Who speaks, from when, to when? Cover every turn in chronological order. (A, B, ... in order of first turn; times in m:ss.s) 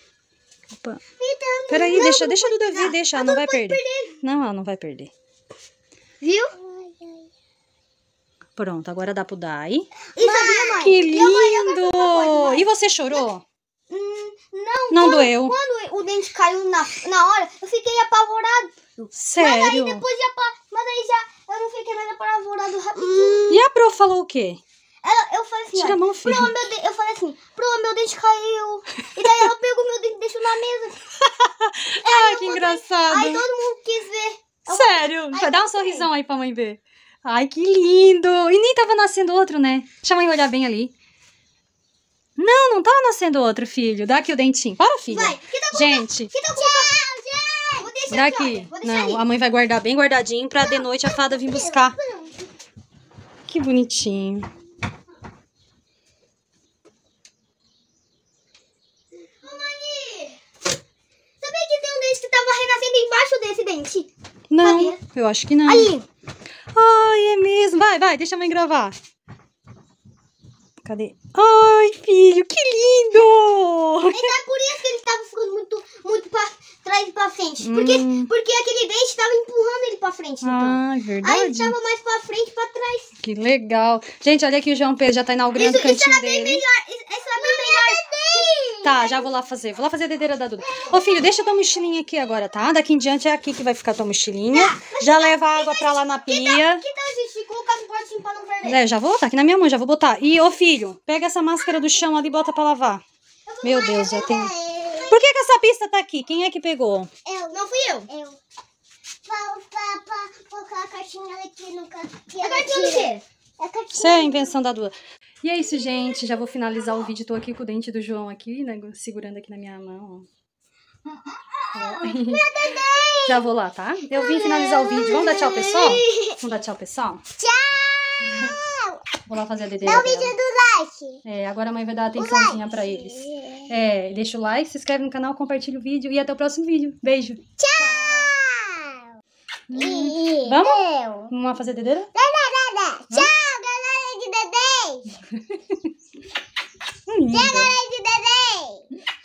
0:01.2-0:04.1 A
0:01.7-0:05.1 B
0:06.2-0:06.5 A
0:06.6-0:07.2 C
0:08.6-0:13.4 B
0:10.1-0:10.9 C
0:10.2-0:13.2 A
0:13.9-0:23.6 A
0:14.9-0:15.5 B
0:19.1-0:20.0 B
0:23.5-0:24.6 B
0:25.0-0:31.0 A
0:25.7-0:26.6 B
0:31.4-0:33.4 B
0:32.0-0:36.1 A
0:34.7-0:40.9 B
0:42.4-0:46.3 B
0:45.1-0:47.0 A
0:46.5-0:47.9 C
0:47.8-0:49.2 A
0:48.1-0:52.0 B
0:50.6-0:52.3 C
0:53.5-0:54.5 B
0:59.4-1:00.4 A
1:01.4-1:04.1 A
1:04.5-1:05.9 B
1:04.6-1:05.0 A
1:05.6-1:06.0 A
1:06.7-1:08.9 B
1:10.8-1:14.3 B
1:14.1-1:23.1 A
1:17.6-1:18.3 B
1:20.4-1:21.8 B
1:23.2-1:26.6 B
1:25.5-1:29.2 A
1:27.4-1:28.8 C
1:28.8-1:36.8 B
1:34.5-1:38.8 A
1:38.6-1:43.0 B
1:43.5-1:44.3 A
1:43.6-1:47.1 B
1:43.9-1:45.2 C
1:47.3-1:48.1 A
1:47.3-1:48.4 C
1:49.2-1:54.5 C
1:52.4-1:53.2 A
1:53.9-2:00.3 B
2:01.7-2:02.4 B
2:01.8-2:03.4 C
2:03.2-2:07.2 B
2:05.8-2:06.0 A
2:07.4-2:09.0 C
2:09.3-2:10.3 B
2:09.8-2:11.2 C
2:11.2-2:17.4 B
2:12.1-2:13.7 C
2:17.6-2:19.0 C
2:19.7-2:22.1 B
2:19.8-2:21.3 C
2:22.1-2:25.1 C
2:27.1-2:27.7 B
2:27.3-2:28.9 C